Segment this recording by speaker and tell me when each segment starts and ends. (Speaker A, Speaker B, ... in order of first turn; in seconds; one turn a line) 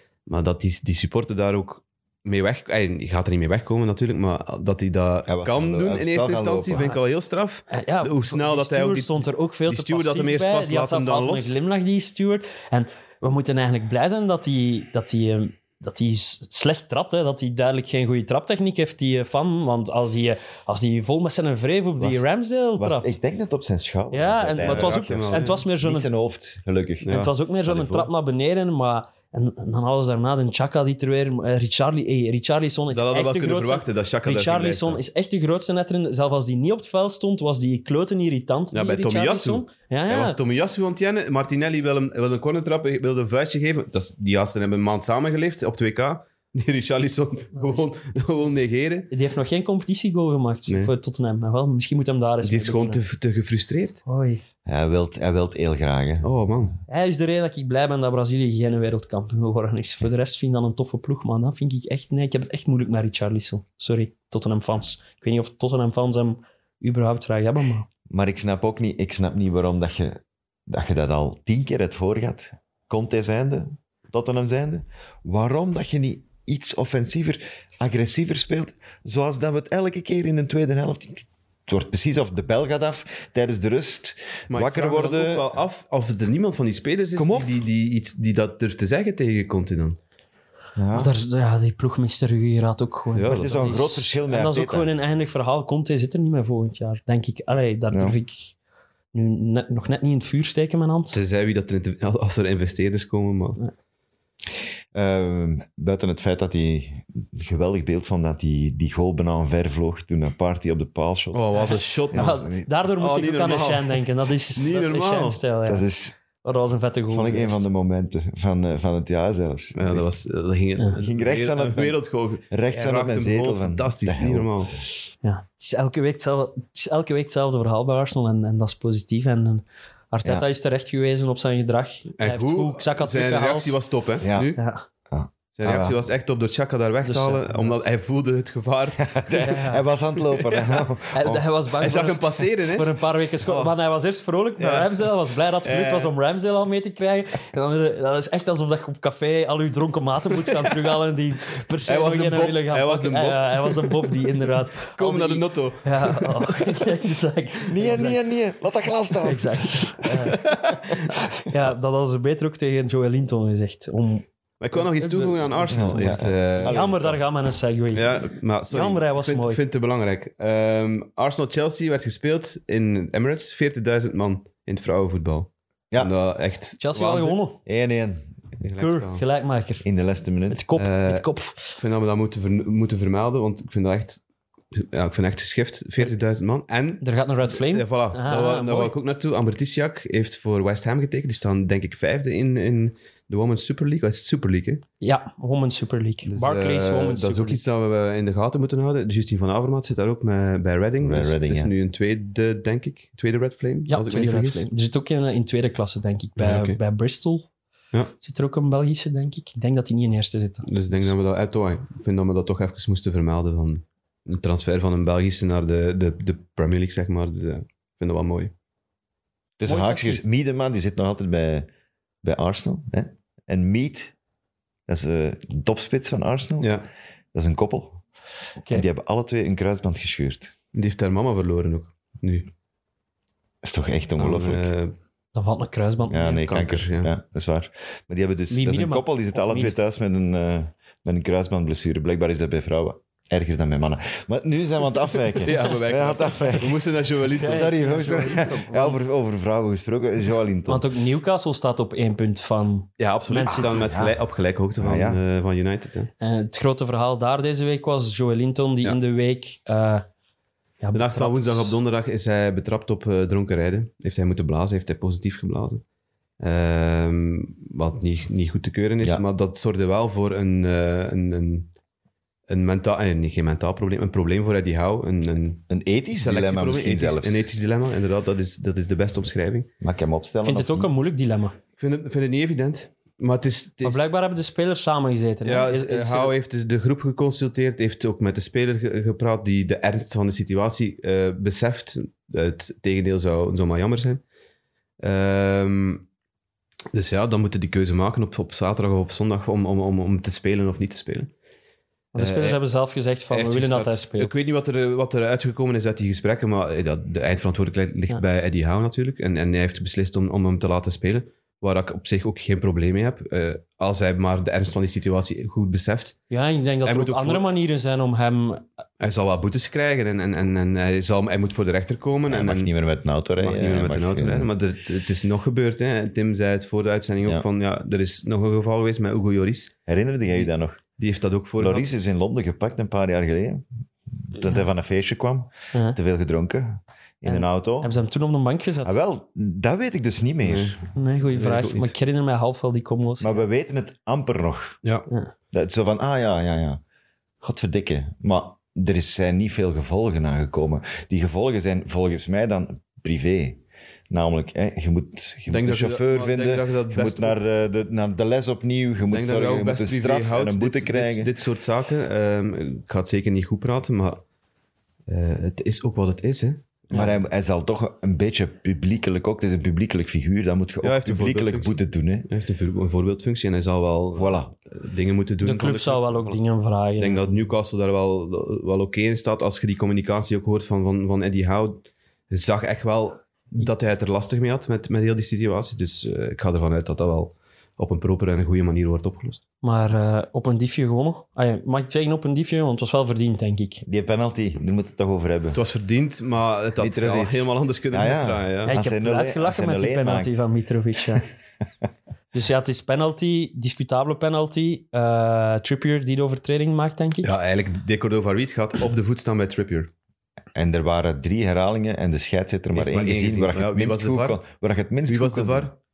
Speaker A: 0.3-11.6
Speaker B: 5.3-6.9
Speaker C: 7.7-23.1
Speaker B: 22.0-22.2
Speaker B: 22.8-27.1
Speaker C: 24.1-26.1
Speaker A: 24.6-25.6
Speaker A: 27.0-28.1
Speaker C: 27.1-40.4
Speaker A: 32.9-35.0
Speaker A: 38.7-49.1
Speaker C: 47.6-47.8
Speaker C: 49.1-53.0
Speaker A: 52.4-54.0
Speaker C: 54.1-54.4
Speaker B: 54.6-56.3
Speaker A: 56.2-56.7
Speaker C: 56.9-67.9
Speaker B: 68.1-85.6
Speaker A: 84.5-90.0
Speaker B: 87.2-87.5
Speaker B: 90.8-91.1
Speaker C: 90.9-98.5
Speaker A: 93.1-93.7
Speaker B: 93.3-94.9
Speaker B: 97.9-98.2
Speaker C: 99.1-101.2
Speaker A: 101.1-103.6
Speaker B: 104.9-112.7
Speaker A: 111.3-115.4
Speaker C: 112.1-115.8
Speaker B: 115.7-116.2
Speaker C: 116.4-117.7
Speaker B: 117.1-120.1
Speaker A: 119.7-124.7
Speaker B: 121.0-122.0
Speaker B: 122.5-124.7
Speaker C: 125.2-133.8
Speaker A: 132.2-134.6
Speaker B: 134.2-134.5
Speaker C: 134.6-134.8
Speaker B: 135.1-136.0
Speaker A: 135.5-139.1
Speaker C: 137.0-137.8
Speaker B: 139.0-141.5
Speaker C: 139.3-139.9
Speaker A: 140.3-140.8
Speaker C: 141.1-158.2
Speaker A: 141.8-143.7
Speaker A: 144.6-145.1
Speaker A: 145.6-146.1
Speaker A: 151.8-156.8
Speaker B: 157.7-160.1
Speaker C: 159.2-160.5
Speaker A: 160.4-160.8
Speaker C: 161.1-168.1
Speaker A: 164.6-166.8
Speaker B: 165.7-167.2
Speaker A: 167.9-177.4
Speaker C: 168.7-169.6
Speaker C: 176.8-177.6
Speaker B: 177.7-178.3
Speaker A: 178.6-179.2
Speaker C: 178.8-179.8
Speaker B: 179.8-180.6
Speaker C: 180.5-181.8
Speaker A: 180.7-184.2
Speaker A: 184.7-194.8
Speaker C: 187.0-188.9
Speaker C: 195.0-197.6
Speaker A: 196.2-204.7
Speaker B: 201.0-201.7
Speaker C: 203.9-207.5
Speaker A: 206.4-206.8
Speaker C: 208.2-211.1
Speaker A: 210.6-218.5
Speaker B: 219.6-221.7
Speaker C: 219.7-220.2
Speaker B: 222.2-224.1
Speaker B: 224.9-226.7
Speaker A: 226.6-226.8
Speaker B: 227.3-228.0
Speaker C: 228.6-228.8
Speaker B: 228.7-230.5
Speaker A: 230.7-232.5
Speaker B: 233.6-234.7
Speaker A: 234.2-234.9
Speaker C: 235.3-236.4
Speaker B: 236.1-250.9
Speaker A: 236.2-237.1
Speaker C: 238.5-239.8
Speaker A: 245.4-247.7
Speaker C: 247.4-249.0
Speaker C: 250.7-253.9
Speaker A: 253.0-256.1
Speaker B: 253.5-254.1
Speaker B: 254.8-255.2
Speaker C: 256.2-260.0
Speaker C: 260.8-261.8
Speaker A: 260.9-265.8
Speaker A: 266.4-271.7
Speaker A: 272.5-279.7
Speaker B: 275.7-277.5
Speaker B: 279.8-280.9
Speaker C: 280.4-281.6
Speaker A: 281.8-284.1
Speaker C: 283.8-286.3
Speaker A: 285.4-294.2
Speaker A: 295.0-296.1
Speaker A: 296.9-301.3
Speaker C: 302.1-304.4
Speaker A: 302.2-302.6
Speaker A: 303.3-316.2
Speaker C: 316.3-318.6
Speaker A: 316.8-317.5
Speaker A: 319.0-322.7
Speaker B: 322.3-324.5
Speaker A: 323.4-329.7
Speaker B: 329.9-330.8
Speaker A: 330.3-331.9
Speaker B: 331.6-333.6
Speaker B: 334.2-337.9
Speaker C: 337.2-338.9
Speaker B: 338.8-340.8
Speaker A: 340.4-340.8
Speaker C: 340.9-343.4
Speaker A: 341.3-341.9
Speaker B: 343.2-344.8
Speaker B: 345.5-346.8
Speaker B: 347.4-361.3
Speaker A: 355.5-357.4
Speaker A: 359.1-364.2
Speaker A: 365.1-367.0
Speaker B: 366.9-372.3
Speaker A: 370.8-376.4
Speaker B: 374.1-374.5
Speaker C: 375.4-377.3
Speaker A: 377.0-389.4
Speaker C: 389.6-393.8
Speaker B: 393.8-395.6
Speaker A: 395.5-398.8
Speaker B: 396.8-400.4
Speaker C: 398.6-401.2
Speaker C: 402.3-407.3
Speaker A: 407.2-409.9
Speaker B: 410.5-415.7
Speaker A: 412.7-414.4
Speaker A: 415.1-415.7